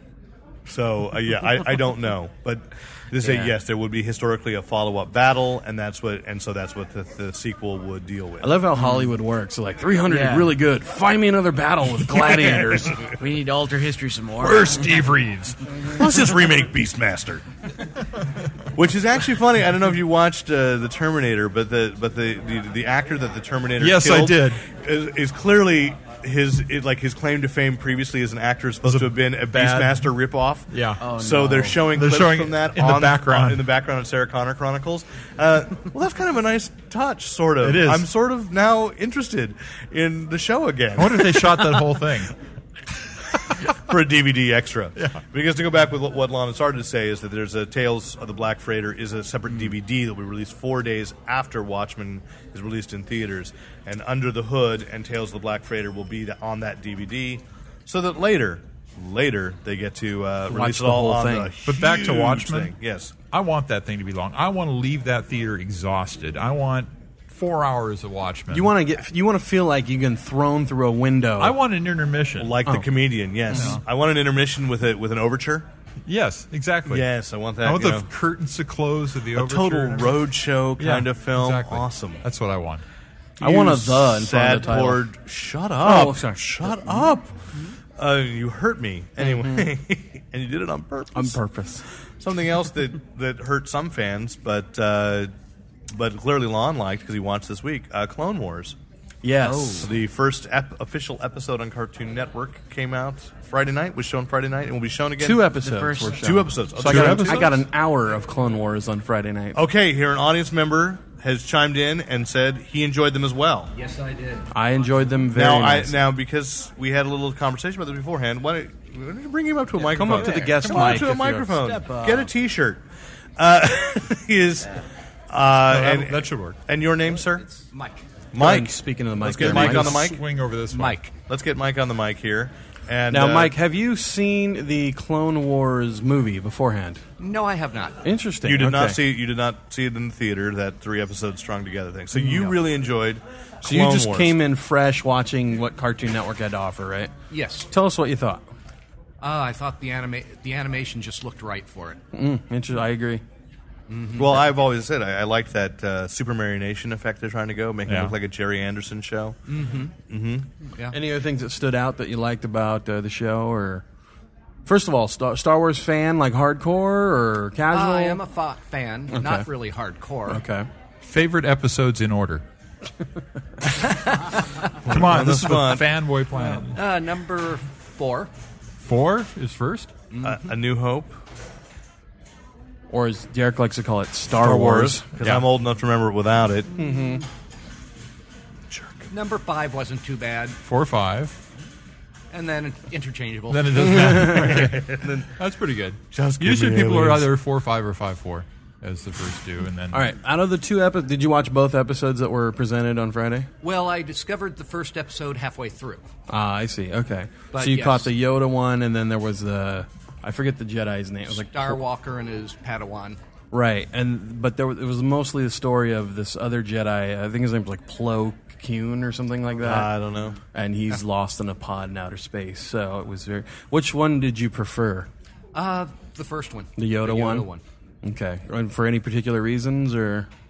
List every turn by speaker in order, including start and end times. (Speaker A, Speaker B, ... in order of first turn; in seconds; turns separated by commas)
Speaker A: 0.7-8.6, Speaker B: 3.2-3.5, Speaker C: 8.4-13.0, Speaker B: 8.8-9.1, Speaker B: 10.1-10.6, Speaker B: 13.0-15.0, Speaker D: 14.4-15.7, Speaker A: 15.8-17.4, Speaker A: 18.7-42.0, Speaker D: 23.8-24.6, Speaker D: 28.8-30.1, Speaker D: 30.7-31.0, Speaker B: 31.0-31.8, Speaker D: 31.9-33.7, Speaker D: 37.6-38.1, Speaker D: 41.0-42.4, Speaker A: 43.6-63.1, Speaker D: 45.0-45.2, Speaker C: 60.5-61.5, Speaker D: 61.6-62.7, Speaker D: 63.3-68.7, Speaker C: 68.5-71.6, Speaker D: 71.4-72.6, Speaker A: 72.4-75.7, Speaker D: 73.5-73.8, Speaker D: 76.0-77.1, Speaker A: 76.9-78.1, Speaker D: 77.6-82.8, Speaker A: 79.3-82.2, Speaker C: 83.4-85.0, Speaker A: 83.4-87.3, Speaker C: 85.8-87.2, Speaker A: 88.0-91.4, Speaker C: 89.2-89.7, Speaker C: 91.1-91.8, Speaker A: 92.2-95.3, Speaker A: 95.9-98.8, Speaker C: 99.2-99.9, Speaker B: 99.4-99.9, Speaker A: 99.8-105.5, Speaker C: 105.2-109.6, Speaker B: 105.6-106.4, Speaker A: 106.2-107.5, Speaker D: 106.8-107.5, Speaker A: 109.5-113.7, Speaker E: 113.7-114.5, Speaker C: 114.5-116.0, Speaker A: 115.3-122.8, Speaker B: 119.8-122.3, Speaker C: 119.9-121.5, Speaker A: 123.4-124.7, Speaker A: 125.3-127.5, Speaker D: 125.7-126.6, Speaker E: 127.5-128.0, Speaker A: 128.3-130.2, Speaker C: 128.3-130.0, Speaker D: 129.3-131.0, Speaker E: 130.7-131.1, Speaker A: 131.3-133.5, Speaker C: 133.1-137.0, Speaker E: 137.2-138.0, Speaker C: 138.0-139.0, Speaker A: 138.4-144.4, Speaker C: 142.1-142.6, Speaker C: 143.6-147.1, Speaker E: 147.3-147.7, Speaker C: 147.7-148.5, Speaker E: 149.2-152.0, Speaker C: 152.1-153.2, Speaker E: 153.9-154.4, Speaker A: 154.2-159.4, Speaker D: 157.8-158.1, Speaker E: 159.5-159.9, Speaker A: 160.1-160.5, Speaker C: 160.9-163.8, Speaker C: 164.7-168.2, Speaker E: 167.7-170.4, Speaker C: 169.1-169.5, Speaker C: 170.2-170.7, Speaker D: 171.0-172.4, Speaker E: 173.8-174.9, Speaker D: 174.8-176.8, Speaker A: 174.9-175.9, Speaker E: 176.3-178.3, Speaker D: 178.8-179.9, Speaker E: 180.1-180.5, Speaker A: 180.2-181.2, Speaker C: 182.9-185.0, Speaker A: 184.4-186.7, Speaker D: 185.2-185.5, Speaker C: 186.7-187.2, Speaker A: 188.7-189.1, Speaker E: 189.1-190.6, Speaker D: 190.6-191.3, Speaker E: 192.3-194.0, Speaker D: 193.5-200.1, Speaker C: 193.8-194.6, Speaker A: 194.2-195.3, Speaker A: 196.1-197.3, Speaker C: 199.9-203.5, Speaker E: 203.6-206.1, Speaker C: 206.3-211.8, Speaker E: 207.5-208.1, Speaker E: 211.4-213.2, Speaker C: 213.5-219.9, Speaker A: 219.6-220.4, Speaker C: 220.5-225.1, Speaker E: 225.5-227.6, Speaker C: 226.8-227.5, Speaker C: 228.0-230.3